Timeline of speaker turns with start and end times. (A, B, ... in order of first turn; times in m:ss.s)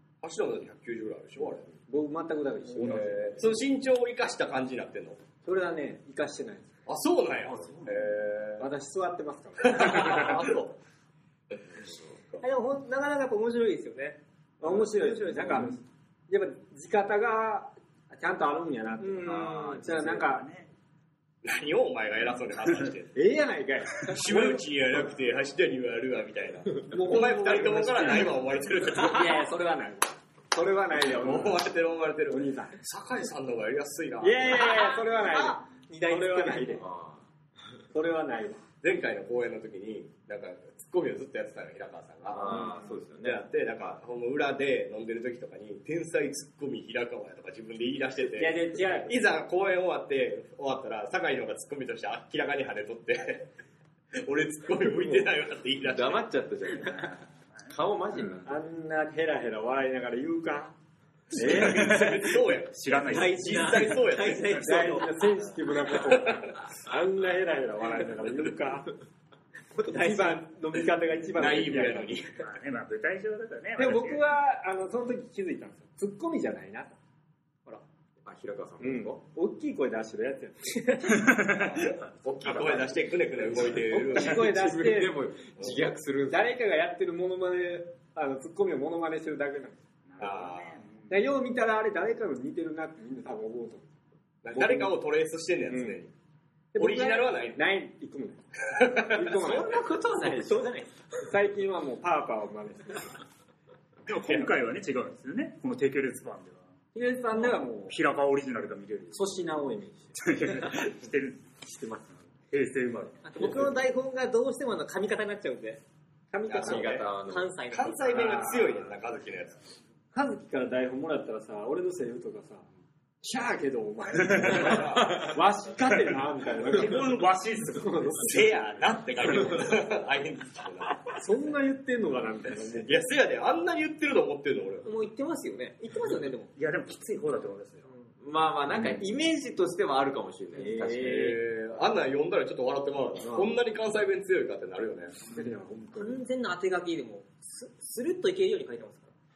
0:00.2-0:01.7 A
0:01.9-0:03.5 B
0:02.8-0:03.1 C
0:02.8-0:05.2 A
0:05.4-0:06.7 B
0:06.8-0:08.7 A
0:07.4-0:08.2 C
0:08.6-0:10.4 B
0:09.6-0:10.8 A
0:11.5-0:12.4 A
0:12.4-0:14.2 D
0:14.6-0:20.4 B
0:14.8-0:15.3 D
0:15.4-0:15.8 C
0:19.0-0:19.7 D
0:19.2-0:20.7 C
0:19.3-0:19.8 E
0:21.4-0:23.1 A
0:23.1-0:24.6 B
0:24.0-0:29.4 A
0:26.8-0:28.4 B
0:28.9-0:31.6 B
0:31.0-0:34.6 A
0:32.3-0:32.8 B
0:34.2-0:36.9 B
0:34.4-0:36.8 D
0:36.8-0:37.2 E
0:37.9-0:38.6 B
0:38.8-0:53.5 A
0:42.3-0:43.4 E
0:48.3-0:49.2 B
0:54.2-0:56.3 A
0:54.9-0:58.5 E
0:57.1-0:57.7 C
0:58.4-1:00.7 B
1:01.3-1:02.0 B
1:01.4-1:04.8 A
1:01.4-1:03.9 C
1:03.1-1:05.3 D
1:04.5-1:08.9 B
1:06.0-1:06.5 A
1:09.8-1:10.4 D
1:09.8-1:12.2 B
1:11.4-1:12.4 A
1:12.4-1:14.2 C
1:13.8-1:17.0 B
1:18.2-1:19.2 E
1:18.8-1:20.8 B
1:21.0-1:22.8 C
1:21.5-1:24.5 A
1:23.7-1:25.2 B
1:24.1-1:26.4 E
1:25.6-1:25.9 A
1:26.3-1:29.8 B
1:30.1-1:31.2 C
1:30.2-1:30.8 A
1:31.1-1:33.9 B
1:34.4-1:36.1 A
1:34.5-1:35.0 B
1:35.7-1:36.0 B
1:36.7-1:38.4 B
1:36.8-1:37.6 A
1:38.7-1:39.6 A
1:39.0-1:39.8 B
1:39.3-1:40.7 E
1:39.4-1:40.9 D
1:41.2-1:43.1 B
1:44.1-1:46.6 C
1:46.9-1:48.0 B
1:47.3-1:49.2 C
1:49.1-1:50.2 B
1:50.2-1:51.6 C
1:51.6-1:52.2 B
1:52.5-1:53.7 C
1:53.2-1:55.8 D
1:56.3-1:57.0 B
1:56.5-1:57.1 A
1:56.6-1:57.6 E
1:57.2-1:58.6 D
1:57.7-1:59.6 A
1:58.4-1:58.6 C
2:00.1-2:02.6 B
2:03.2-2:08.5 B
2:04.3-2:04.7 C
2:04.4-2:05.2 A
2:06.1-2:08.2 C
2:08.2-2:11.2 A
2:11.1-2:13.0 B
2:12.7-2:14.9 A
2:14.8-2:16.5 D
2:16.6-2:17.9 C
2:18.2-2:21.3 E
2:20.5-2:21.4 B
2:21.0-2:25.2 A
2:25.3-2:26.2 B
2:25.9-2:29.1 D